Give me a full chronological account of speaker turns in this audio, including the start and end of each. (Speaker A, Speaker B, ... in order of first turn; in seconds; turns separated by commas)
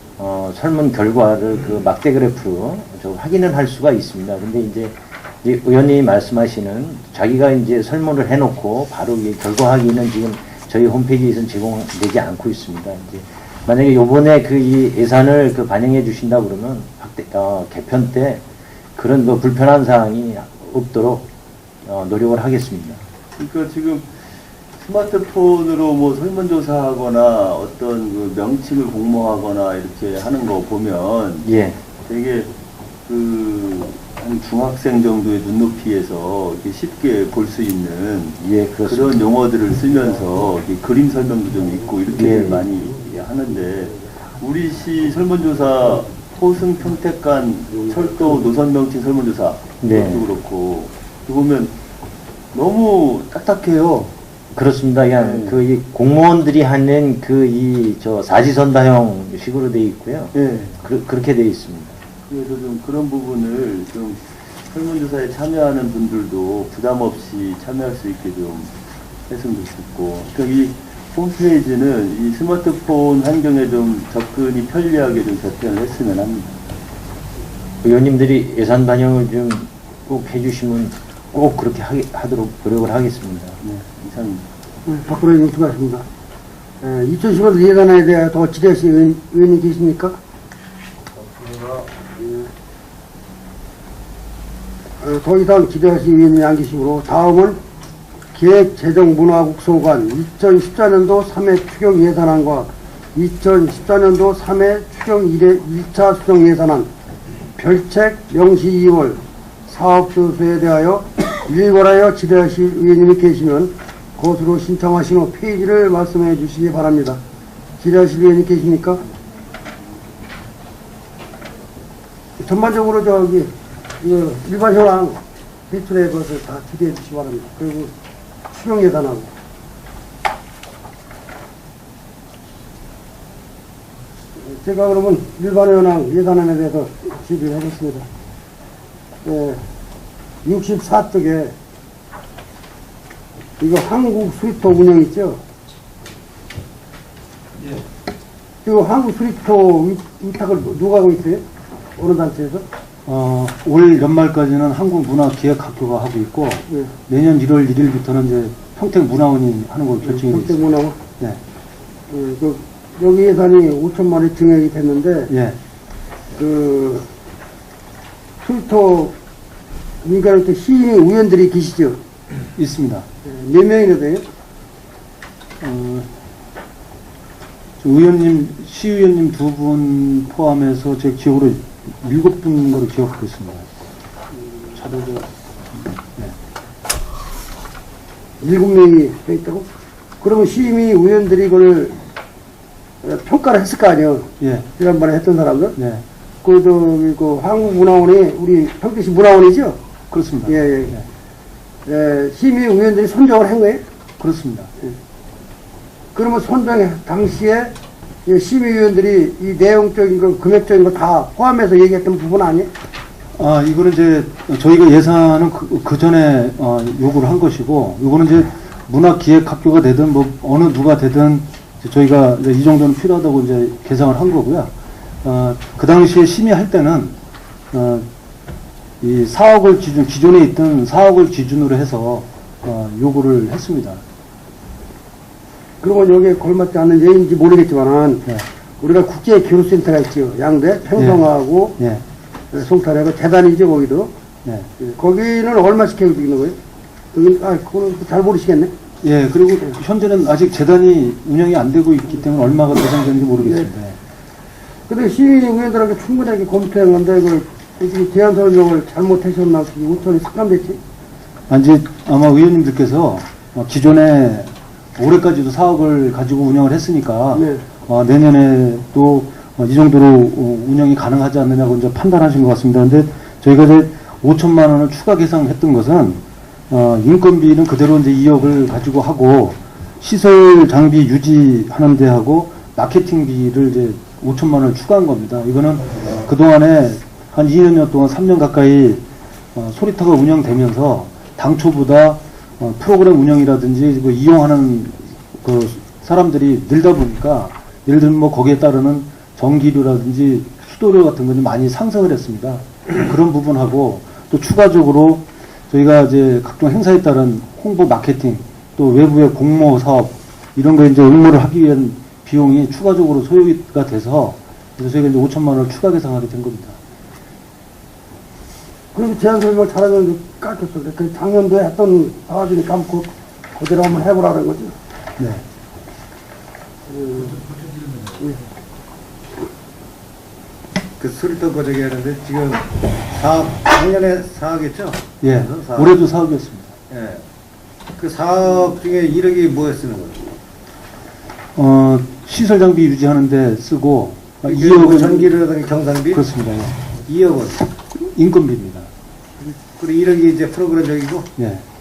Speaker A: 0.2-18.4, Speaker A: 18.9-21.2, Speaker A: 21.9-23.0, Speaker B: 23.4-24.1, Speaker B: 24.8-31.5, Speaker A: 31.4-31.8, Speaker B: 32.0-32.5, Speaker B: 33.1-51.8, Speaker A: 38.4-39.2, Speaker A: 42.1-42.7, Speaker A: 49.8-50.3, Speaker B: 52.5-54.1, Speaker A: 54.5-62.0, Speaker B: 55.2-55.6, Speaker B: 60.3-60.8, Speaker B: 62.3-68.7, Speaker B: 69.3-76.5, Speaker A: 77.8-83.6, Speaker B: 83.6-84.4, Speaker C: 84.9-86.1, Speaker C: 86.8-90.2, Speaker C: 91.9-92.5, Speaker C: 95.0-97.6, Speaker C: 98.3-106.9, Speaker C: 107.6-117.2, Speaker C: 117.8-119.0, Speaker C: 122.4-127.9, Speaker C: 128.5-129.3, Speaker C: 134.4-138.1, Speaker C: 139.2-139.6, Speaker C: 140.4-141.5, Speaker C: 143.6-145.4, Speaker C: 148.6-151.4, Speaker C: 151.9-152.6, Speaker D: 153.1-160.6, Speaker C: 160.1-161.0, Speaker C: 162.1-165.3, Speaker D: 165.3-165.6, Speaker C: 166.3-167.1, Speaker C: 168.4-169.1, Speaker C: 170.0-172.0, Speaker D: 172.6-173.1, Speaker C: 173.2-174.2, Speaker D: 175.6-176.1, Speaker D: 177.8-183.7, Speaker D: 184.7-186.3, Speaker C: 188.4-189.7, Speaker C: 190.2-191.9, Speaker C: 193.0-195.8, Speaker D: 194.4-194.7, Speaker D: 195.8-196.0, Speaker C: 196.4-199.8, Speaker D: 200.1-201.1, Speaker C: 200.4-200.9, Speaker C: 201.9-203.8, Speaker D: 204.2-204.7, Speaker C: 206.1-207.7, Speaker C: 208.2-212.7, Speaker D: 213.4-227.2, Speaker D: 227.7-228.1, Speaker D: 229.0-234.0, Speaker C: 235.8-238.2, Speaker C: 238.8-241.8, Speaker D: 240.9-241.2, Speaker D: 241.8-242.0, Speaker C: 242.5-244.1, Speaker C: 244.8-246.6, Speaker C: 247.1-248.7, Speaker D: 249.0-254.0, Speaker C: 253.4-253.7, Speaker C: 254.9-260.8, Speaker D: 261.5-289.0, Speaker C: 267.3-267.6, Speaker D: 289.6-316.8, Speaker C: 318.9-324.8, Speaker D: 325.2-325.4, Speaker C: 326.9-327.4, Speaker E: 327.4-328.0, Speaker E: 331.0-336.0, Speaker D: 335.2-336.8, Speaker E: 336.9-337.2, Speaker E: 338.0-340.2, Speaker D: 341.6-345.3, Speaker E: 344.4-346.2, Speaker D: 346.1-346.8, Speaker E: 347.1-347.6, Speaker D: 347.9-348.9, Speaker E: 349.4-351.3, Speaker D: 351.4-351.6